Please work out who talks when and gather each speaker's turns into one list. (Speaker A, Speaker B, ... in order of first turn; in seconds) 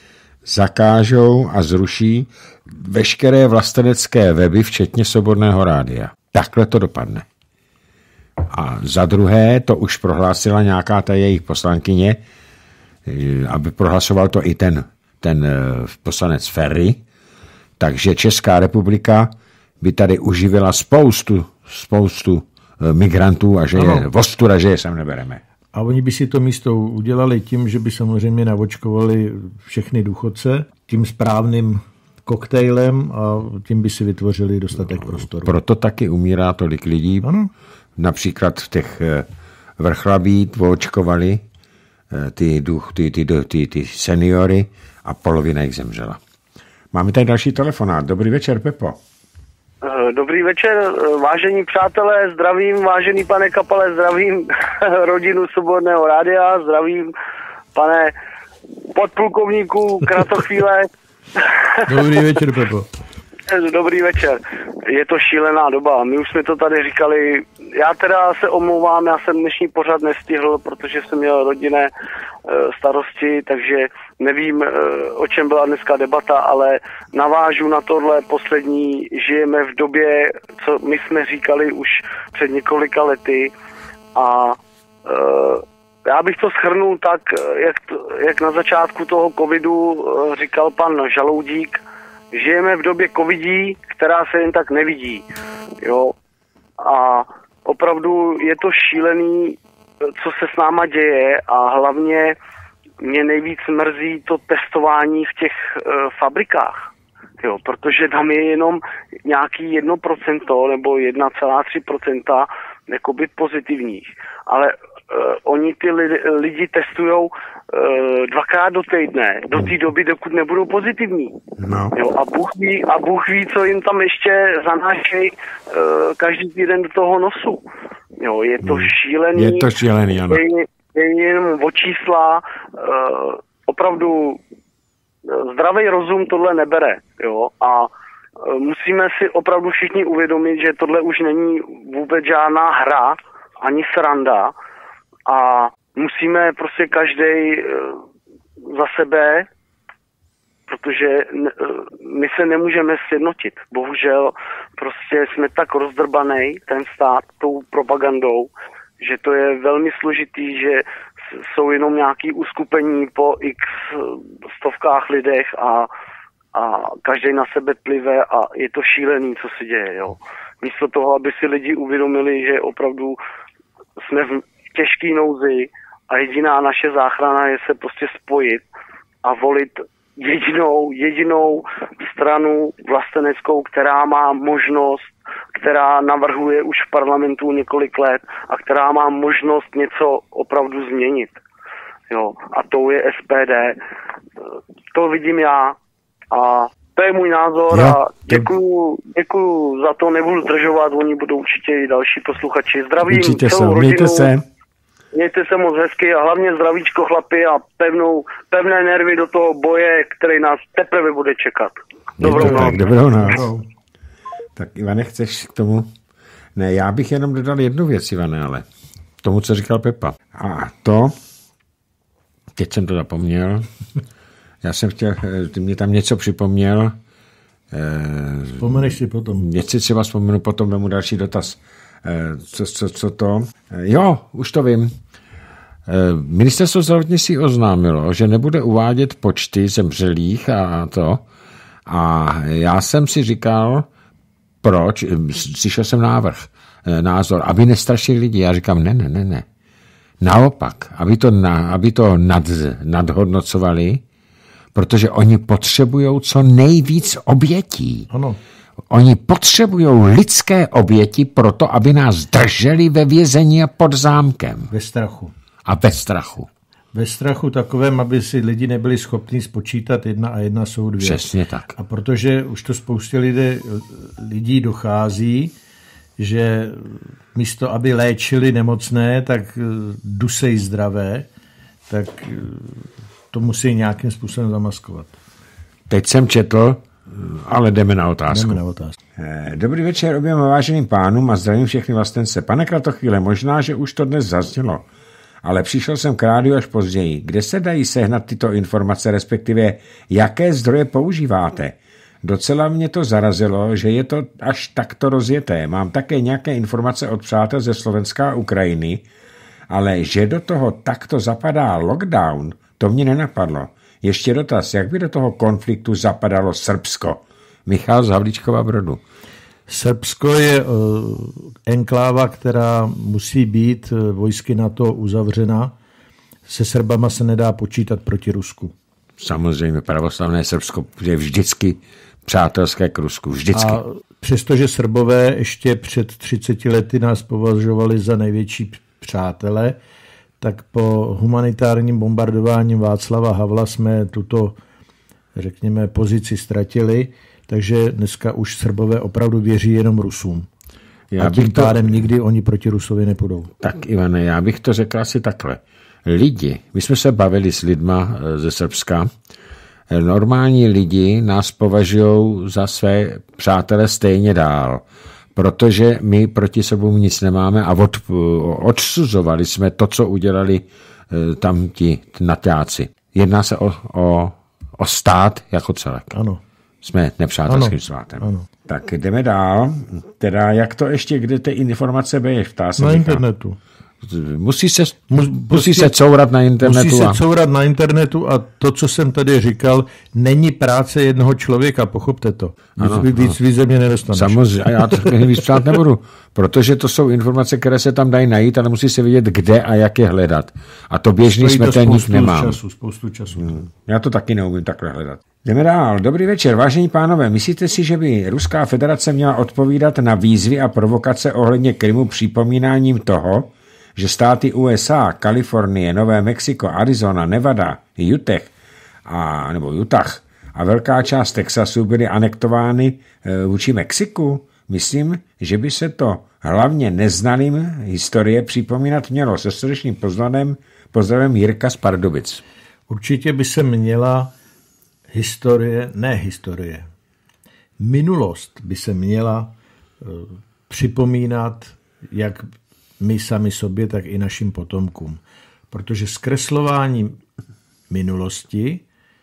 Speaker A: 0.5-7.3, 8.4-12.2, 13.1-17.0, 17.8-19.3, 19.8-25.4, 35.4-37.3, 38.0-39.3, 39.8-41.4, 42.1-46.2, 46.9-49.0, 121.6-122.0, 128.6-130.4, 197.7-198.5, 203.1-204.4, 212.2-213.4, 214.6-215.9, 216.6-218.7, 219.2-221.1, 222.6-223.7, 224.6-227.0, 227.7-234.9, 235.9-241.2, 241.9-243.9, 244.6-249.5, 250.2-254.0, 254.8-258.1, 258.9-264.7, 265.7-266.5, 271.0-271.7, 285.9-288.6, 289.2-294.8, 295.4-309.1, 309.7-319.0, 329.2-333.8, 351.1-352.1, 353.6-359.1, 359.9-364.8, 365.4-376.1, 376.8-383.2, 384.0-387.2, 392.8-393.4, 394.1-402.6, 403.4-418.5, 419.1-432.4
Speaker B: 23.8-24.1, 25.7-35.6, 37.2-37.5, 61.9-62.9, 212.2-213.6, 228.6-229.5, 258.1-258.4, 264.7-265.3, 266.9-271.2, 271.8-275.6, 276.2-281.3, 281.9-285.2, 288.3-289.0, 319.7-325.7, 326.5-328.7, 333.5-339.8, 340.4-344.6, 345.4-350.5, 351.2-353.5, 376.1-376.4, 377.5-378.5, 382.8-383.6, 385.1-385.9, 386.6-395.8, 401.3-403.6, 432.9-434.3, 435.1-436.9, 437.8-442.5, 443.0-445.2, 445.7-447.2, 447.9-448.8
Speaker C: 49.8-57.1, 57.8-58.1, 58.9-62.3, 63.5-71.9, 72.5-83.5, 84.2-91.8, 92.3-95.2, 95.8-96.1, 96.8-102.4, 103.0-106.9, 107.4-121.4, 121.9-127.6, 128.2-129.7, 130.3-134.4, 135.3-144.5, 145.3-148.0, 148.7-149.5, 150.7-165.9, 166.5-173.2, 174.1-178.7, 179.2-191.4, 192.1-193.8, 194.9-195.8, 196.3-204.3, 205.1-212.6